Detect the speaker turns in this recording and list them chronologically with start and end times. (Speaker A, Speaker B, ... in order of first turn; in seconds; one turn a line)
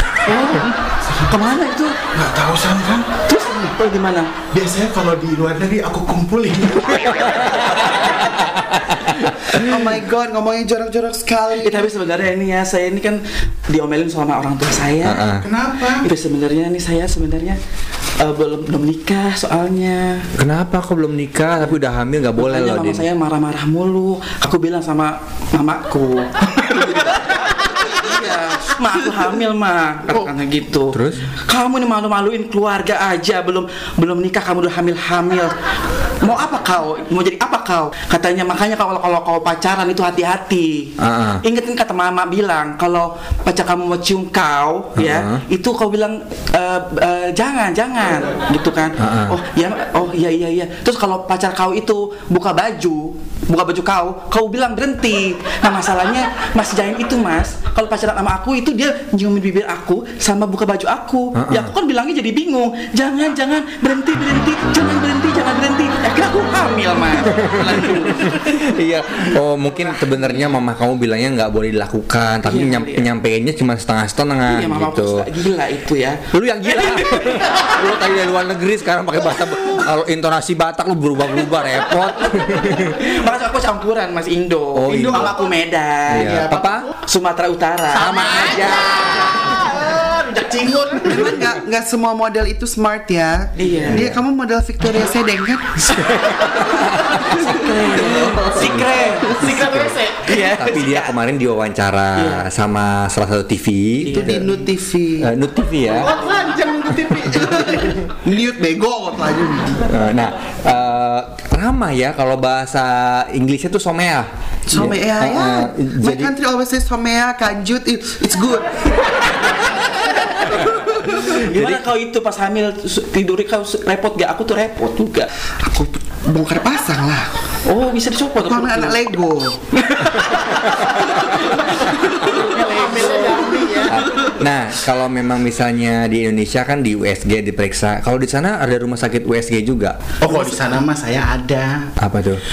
Speaker A: 0.2-2.0
Speaker B: 2.1-3.7
Speaker A: 3.3-4.3
Speaker B: 4.5-7.6
Speaker C: 9.5-11.9
Speaker A: 11.6-15.3
Speaker D: 15.0-15.4
Speaker B: 15.4-16.1
Speaker A: 16.0-17.6
Speaker A: 18.2-20.3
Speaker D: 20.4-23.0
Speaker A: 22.4-35.5
Speaker D: 30.9-31.2
Speaker A: 36.2-68.6
Speaker D: 41.0-41.4
Speaker D: 45.0-45.4
Speaker D: 49.0-49.4
Speaker D: 61.3-61.7
Speaker D: 67.4-75.2
Speaker A: 72.4-73.1
Speaker A: 74.4-77.5
Speaker D: 76.3-83.0
Speaker A: 82.2-86.4
Speaker D: 84.7-85.3
Speaker B: 84.9-85.6
Speaker D: 86.1-86.9
Speaker B: 86.2-86.9
Speaker A: 86.9-89.6
Speaker B: 88.0-91.5
Speaker D: 88.0-88.9
Speaker C: 91.0-96.0
Speaker A: 93.6-94.1
Speaker D: 93.9-94.2
Speaker D: 96.2-96.8
Speaker A: 97.1-99.5
Speaker B: 97.8-100.5
Speaker D: 98.6-104.4
Speaker C: 99.2-99.5
Speaker A: 100.2-101.1
Speaker A: 102.1-102.5
Speaker A: 104.0-104.5
Speaker C: 104.2-105.3
Speaker D: 105.2-106.1
Speaker B: 105.9-108.1
Speaker C: 107.2-109.9
Speaker D: 109.8-116.3
Speaker C: 114.7-119.0
Speaker A: 120.9-125.3
Speaker D: 121.3-121.8
Speaker C: 125.6-127.3
Speaker A: 127.6-129.0
Speaker C: 128.4-129.6
Speaker A: 129.8-134.1
Speaker B: 132.4-134.1
Speaker D: 133.9-140.0
Speaker B: 140.2-141.9
Speaker D: 142.0-142.4